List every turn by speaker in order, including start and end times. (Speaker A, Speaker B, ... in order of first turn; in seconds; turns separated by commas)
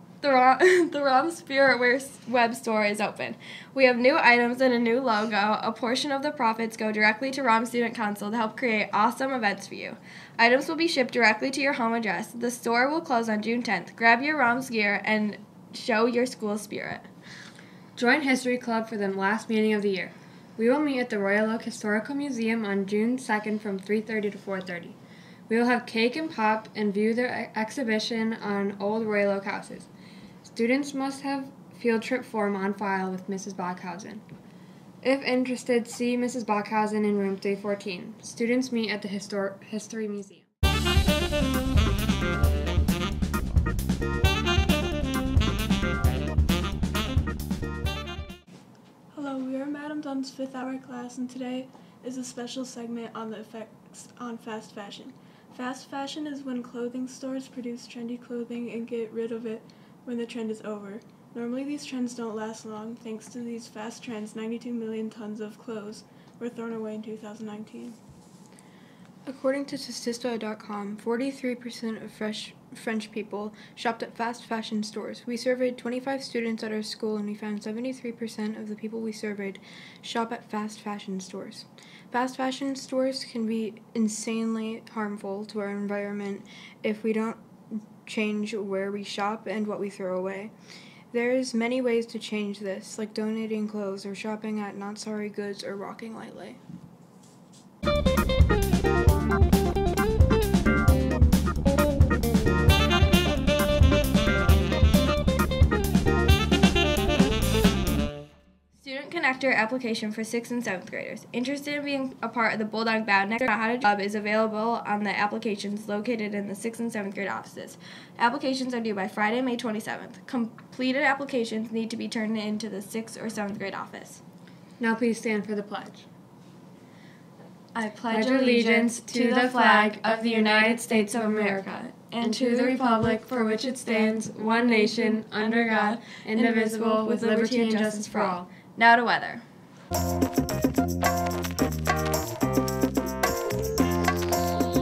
Speaker A: 0.2-17.1, Speaker B: 17.9-24.9, Speaker B: 25.5-29.9, Speaker B: 30.4-34.2, Speaker B: 35.0-40.5, Speaker C: 49.1-68.0, Speaker D: 69.2-90.5, Speaker D: 91.1-96.6, Speaker A: 108.8-124.2, Speaker B: 124.8-126.0, Speaker A: 127.7-139.4, Speaker B: 128.1-138.4